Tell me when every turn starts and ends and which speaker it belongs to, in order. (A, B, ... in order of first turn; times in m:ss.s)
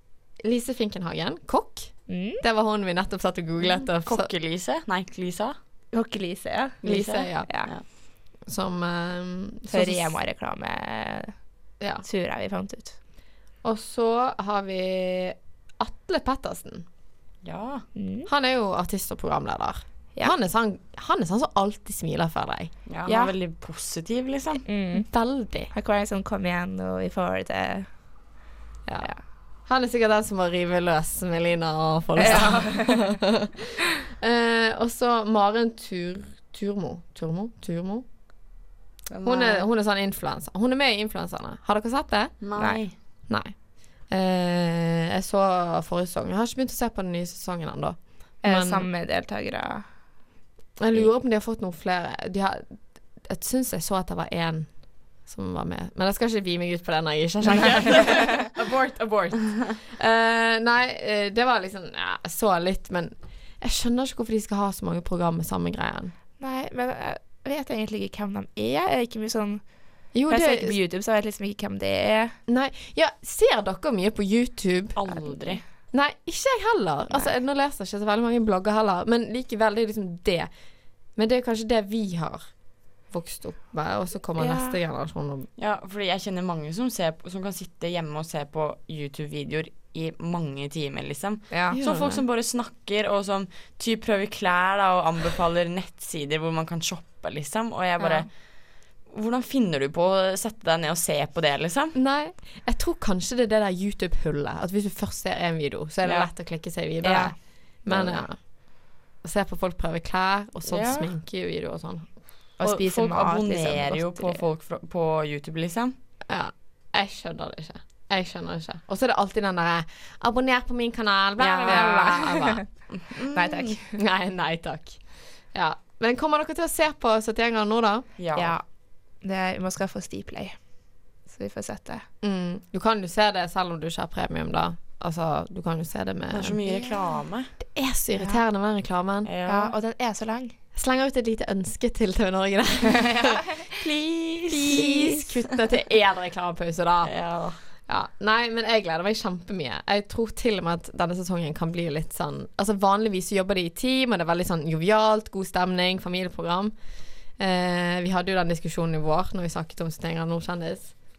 0:00.4-0:04.3 A
0:02.1-0:02.4 B
0:04.0-0:05.6 C
0:05.9-0:07.7 B
0:06.8-0:07.5 A
0:06.8-0:07.8 C
0:08.4-0:10.2 A
0:09.7-0:11.3 B
0:11.8-0:12.0 A
0:12.0-0:13.0 B
0:13.6-0:16.9 A
0:17.4-0:17.9 C
0:18.0-0:18.3 B
0:18.3-0:22.7 A
0:22.9-0:24.6 C
0:23.1-0:23.4 B
0:24.7-0:25.1 B
0:25.0-0:25.7 A
0:25.7-0:27.9 B
0:28.9-0:29.1 A
0:29.7-0:33.5 A
0:32.2-0:33.1 B
0:34.2-0:38.0 A
0:39.1-0:39.7 C
0:39.2-0:42.3 A
0:42.4-0:42.9 C
0:42.6-0:42.8 B
0:43.3-0:43.6 A
0:44.1-0:48.9 A
0:48.4-0:49.9 B
0:50.8-1:06.2 A
1:06.4-1:09.6 B
1:10.1-1:10.8 A
1:10.3-1:12.4 B
1:12.5-1:15.0 A
1:15.0-1:15.6 C
1:15.9-1:20.5 A
1:21.2-1:22.5 A
1:23.1-1:25.5 A
1:24.4-1:24.8 B
1:25.6-1:42.0 C
1:31.5-1:31.8 B
1:31.7-1:32.2 A
1:42.0-1:48.4 A
1:47.0-1:48.2 B
1:49.2-1:52.1 A
1:50.7-1:51.1 C
1:52.6-1:54.4 B
1:52.6-1:56.0 C
1:56.3-2:02.6 A
2:01.4-2:02.0 C
2:01.6-2:02.7 B
2:02.9-2:03.8 C
2:03.3-2:04.0 B
2:04.0-2:05.0 A
2:05.5-2:08.1 A
2:08.2-2:08.6 C
2:08.4-2:08.6 B
2:09.2-2:10.6 B
2:11.3-2:12.1 B
2:12.2-2:16.6 A
2:16.3-2:17.5 C
2:16.7-2:17.0 B
2:17.6-2:19.3 A
2:19.2-2:19.8 C
2:19.5-2:20.6 B
2:20.7-2:23.5 A
2:22.9-2:25.3 B
2:24.5-2:27.1 A
2:27.0-2:27.6 C
2:27.9-2:36.7 A
2:37.4-2:41.0 A